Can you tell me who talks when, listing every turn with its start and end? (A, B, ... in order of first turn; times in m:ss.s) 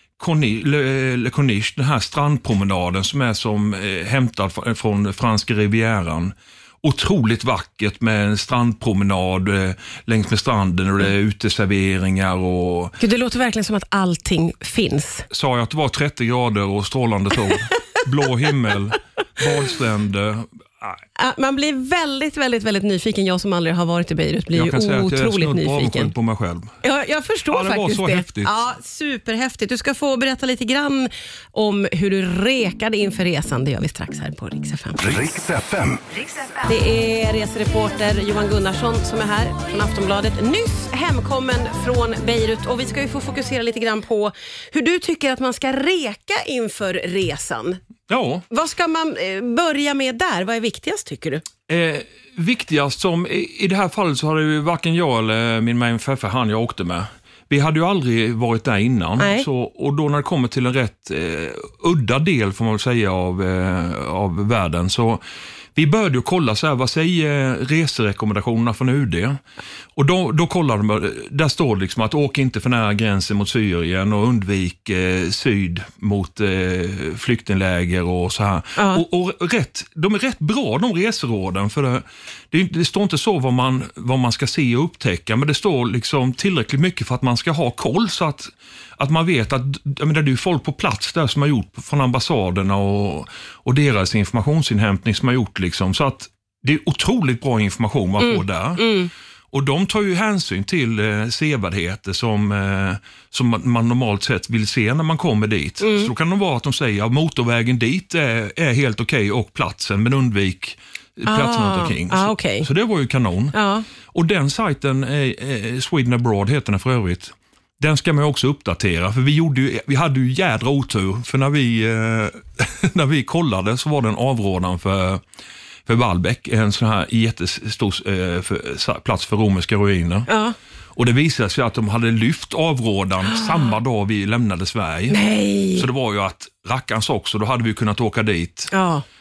0:00.2-0:13.0 A
0:13.0-0:15.3 B
0:15.3-0:21.0 A
0:21.2-0:26.1 B
0:24.5-0:26.7 A
0:26.8-0:35.6 B
0:27.5-0:28.6 A
0:36.4-0:47.8 B
0:48.1-0:48.4 A
0:48.5-0:51.4 B
0:51.7-1:05.2 A
0:59.2-0:59.5 B
1:05.8-1:09.4 A
1:10.0-1:38.9 A
1:18.8-1:19.0 B
1:38.2-1:39.1 B
1:39.5-1:53.6 A
1:45.8-1:46.1 B
1:51.3-1:52.7 B
1:53.5-1:53.9 B
1:54.1-2:05.2 A
2:05.9-2:10.3 A
2:10.3-2:10.6 B
2:11.0-2:15.2 A
2:13.2-2:13.7 B
2:15.1-2:15.9 B
2:15.7-2:18.7 A
2:18.7-2:19.0 B